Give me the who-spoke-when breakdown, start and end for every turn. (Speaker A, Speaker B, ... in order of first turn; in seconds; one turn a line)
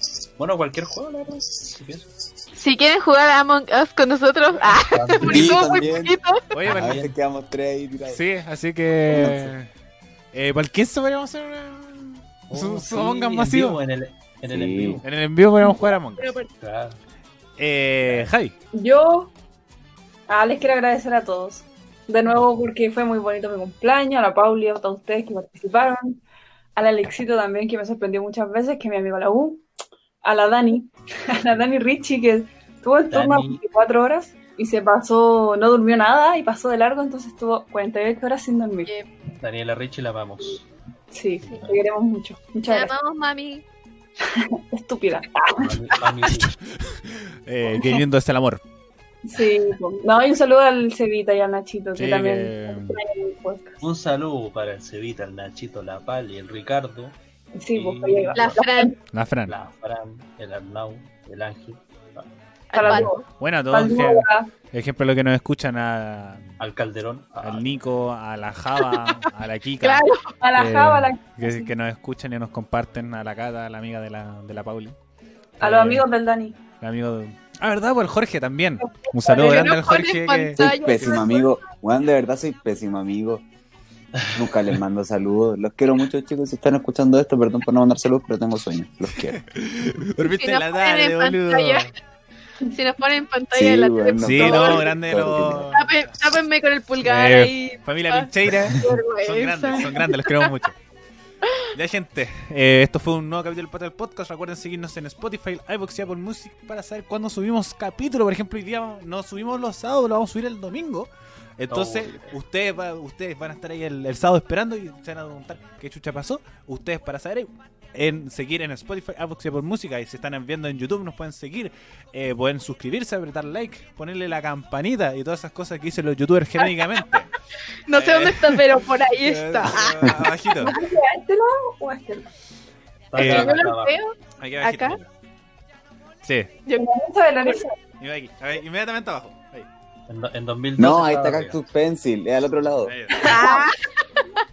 Speaker A: 0.4-2.1
Speaker B: 2.6-6.5
Speaker A: 4.7-6.0
Speaker C: 5.2-8.2
Speaker D: 6.5-7.0
Speaker A: 6.6-7.1
Speaker D: 8.1-9.7
Speaker C: 9.1-9.5
Speaker D: 10.3-13.8
Speaker A: 12.5-15.0
Speaker C: 14.5-15.0
Speaker D: 15.0-16.4
Speaker B: 15.6-16.5
Speaker A: 16.6-17.0
Speaker D: 17.6-18.5
Speaker E: 18.7-19.3
Speaker E: 20.3-26.2
Speaker E: 26.8-29.6
Speaker E: 30.2-38.9
Speaker A: 33.1-33.6
Speaker A: 39.4-40.7
Speaker E: 41.1-43.0
Speaker A: 41.4-41.8
Speaker B: 42.7-43.6
Speaker E: 44.3-45.8
Speaker A: 45.6-46.6
Speaker D: 46.3-48.6
Speaker E: 49.2-53.8
Speaker D: 52.0-53.0
Speaker A: 53.8-57.2
Speaker E: 57.6-58.9
Speaker A: 57.7-58.5
Speaker B: 58.4-59.0
Speaker D: 59.1-59.5
Speaker A: 59.5-62.3
Speaker B: 62.7-63.3
Speaker E: 62.7-64.5
Speaker D: 62.9-66.5
Speaker A: 66.6-67.7
Speaker D: 67.4-75.0
Speaker B: 69.8-70.3
Speaker E: 70.4-71.7
Speaker D: 75.6-76.1
Speaker E: 75.6-76.6
Speaker D: 76.8-80.9
Speaker B: 79.2-81.5
Speaker C: 80.6-83.4
Speaker C: 84.3-89.4
Speaker D: 89.2-91.9
Speaker B: 90.2-91.9
Speaker B: 92.7-100.5
Speaker C: 93.5-95.8
Speaker D: 94.2-95.9
Speaker D: 97.0-100.8
Speaker D: 101.7-127.3
Speaker A: 111.7-112.3
Speaker B: 127.9-130.1
Speaker D: 127.9-130.8
Speaker E: 130.6-132.3
Speaker A: 133.1-134.0
Speaker D: 133.2-133.7
Speaker B: 133.2-135.0
Speaker D: 134.4-135.1
Speaker D: 136.2-136.5
Speaker E: 136.8-137.8
Speaker D: 138.0-139.7
Speaker A: 140.1-141.6
Speaker C: 140.8-143.1
Speaker D: 142.8-143.4
Speaker B: 143.2-143.9